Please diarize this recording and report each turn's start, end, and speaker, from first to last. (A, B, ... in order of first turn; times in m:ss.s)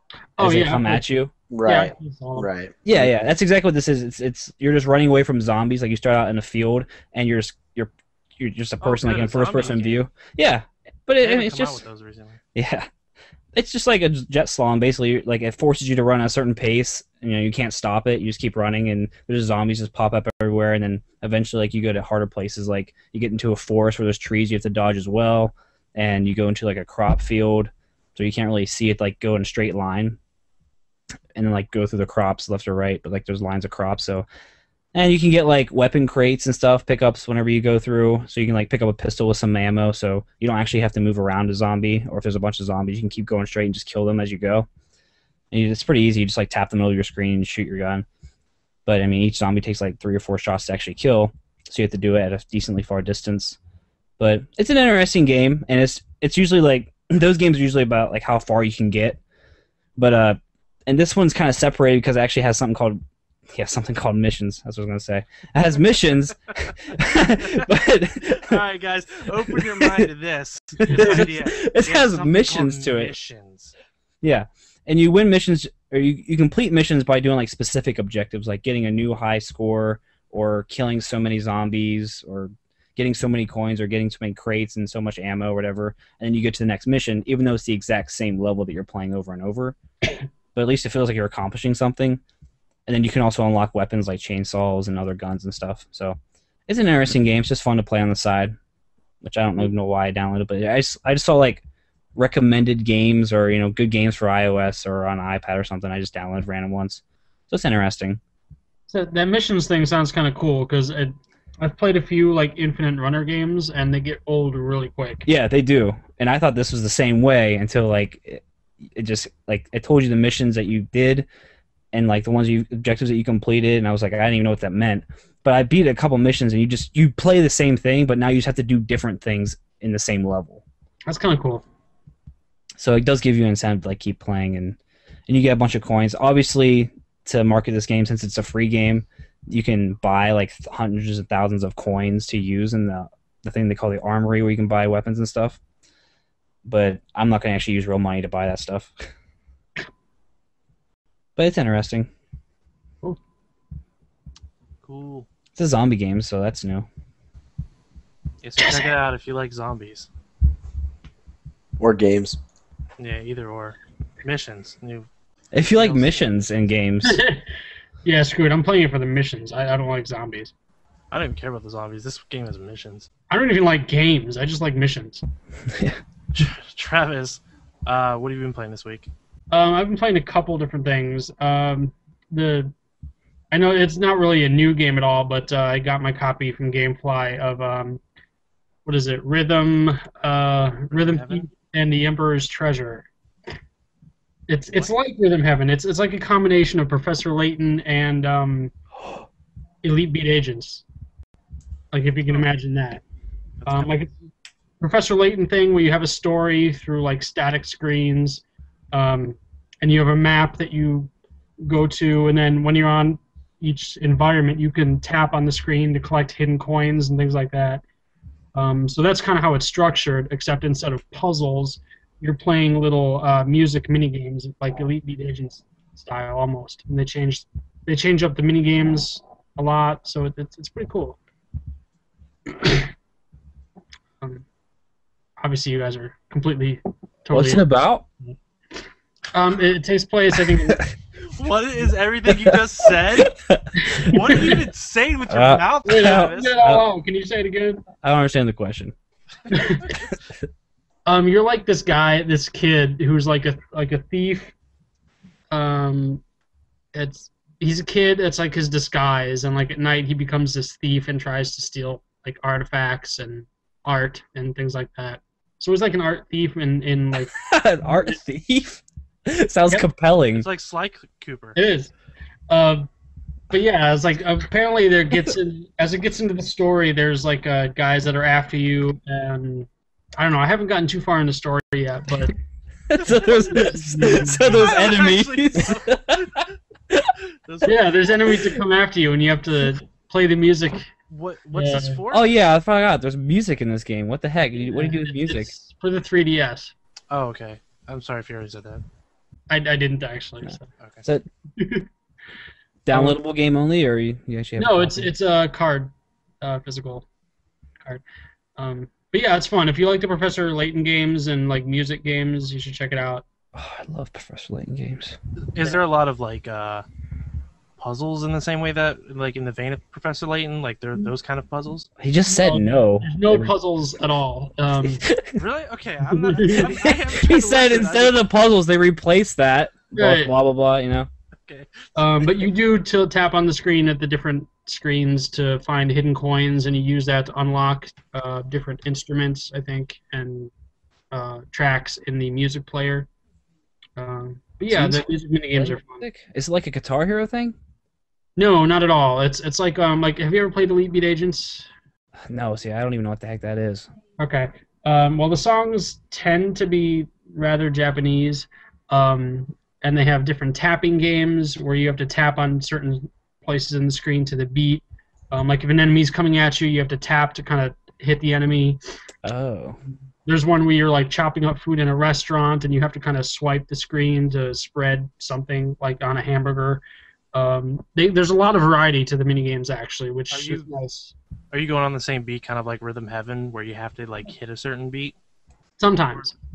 0:00.4-0:01.0 A
0:00.4-0:01.3 B
0:01.5-0:03.1 C
0:01.7-0:02.5 A
0:02.8-0:11.8 B
0:08.8-0:10.0 D
0:11.2-0:12.4 D
0:12.5-0:12.9 B
0:13.5-0:30.2 B
0:31.3-0:34.2 B
0:34.9-0:44.7 B
0:45.5-0:48.0 B
0:48.8-0:53.6 B
0:54.2-0:59.2 B
1:00.0-1:08.6 B
1:08.4-1:13.7 D
1:09.5-1:10.0 B
1:10.9-1:13.1 B
1:14.2-1:29.8 B
1:30.5-1:32.2 B
1:32.9-1:38.6 B
1:39.2-1:41.6 B
1:42.2-1:48.2 B
1:48.9-1:55.2 A
1:55.2-2:01.2 B
2:01.9-2:10.6 B
2:11.1-2:11.6 A
2:12.8-2:14.8 B
2:15.3-2:25.6 B
2:26.6-2:29.1 B
2:31.4-2:32.1 B
2:34.8-2:35.3 D
2:35.6-2:36.9 B
2:38.4-2:40.1 D
2:38.6-2:38.9 A
2:41.8-2:42.4 C
2:43.0-2:45.1 D
2:45.5-2:47.2 B
2:45.7-2:46.4 D
2:47.0-2:47.4 A
2:48.0-2:50.5 A
2:51.1-2:53.1 D
2:53.3-2:55.2 A
2:55.7-2:56.0 B
2:56.4-2:59.1 D
2:59.5-3:02.7 A
3:03.5-3:08.0 A
3:08.8-3:13.1 A
3:10.9-3:11.5 D
3:14.5-3:18.7 A
3:14.7-3:14.9 D
3:19.8-3:20.8 A
3:21.9-3:23.0 A
3:23.6-3:23.9 D
3:23.7-3:24.1 A
3:24.8-3:31.1 A
3:31.6-3:37.8 A
3:38.5-3:51.2 A
3:52.5-3:52.9 A
3:55.4-3:57.7 A
3:57.3-3:58.0 B
3:59.3-4:00.9 A
4:01.3-4:03.3 D
4:02.3-4:02.5 B
4:03.3-4:04.1 B
4:03.8-4:04.6 A
4:04.0-4:06.6 D
4:05.3-4:06.8 B
4:05.8-4:07.8 A
4:08.0-4:08.9 B
4:09.5-4:10.0 A
4:11.0-4:14.5 A
4:15.5-4:16.2 A
4:16.9-4:27.4 A
4:27.3-4:30.4 B
4:30.3-4:31.6 D
4:31.6-4:31.9 A
4:32.5-4:32.9 A
4:33.5-4:42.3 A
4:42.9-4:47.1 B
4:43.0-4:44.8 A
4:44.4-4:46.5 D
4:47.4-4:48.1 D
4:47.6-4:50.9 A
4:51.1-4:52.3 D
4:51.5-4:52.0 A
4:52.1-4:55.5 B
4:54.6-4:56.7 A
4:57.1-4:58.8 D
4:59.5-5:00.7 A
5:01.6-5:01.9 A
5:02.8-5:05.1 B
5:02.9-5:03.2 A
5:04.6-5:07.0 A
5:08.6-5:13.2 A
5:13.5-5:15.2 B
5:15.5-5:16.8 D
5:17.8-5:21.9 D
5:22.0-5:23.5 B
5:22.3-5:25.0 A
5:25.0-5:25.3 B
5:25.4-5:28.2 D
5:26.1-5:26.8 A
5:26.6-5:31.1 B
5:30.0-5:30.3 A
5:31.5-5:32.2 D
5:32.0-5:40.5 A
5:41.1-5:43.1 A
5:44.0-5:46.0 A
5:44.7-5:47.6 B
5:48.4-5:51.7 A
5:52.3-5:53.9 B
5:54.2-6:08.8 A
6:09.2-6:09.8 B
6:10.2-6:16.8 A
6:17.3-6:21.1 A
6:20.3-6:20.7 D
6:21.5-6:25.1 D
6:25.8-6:26.3 A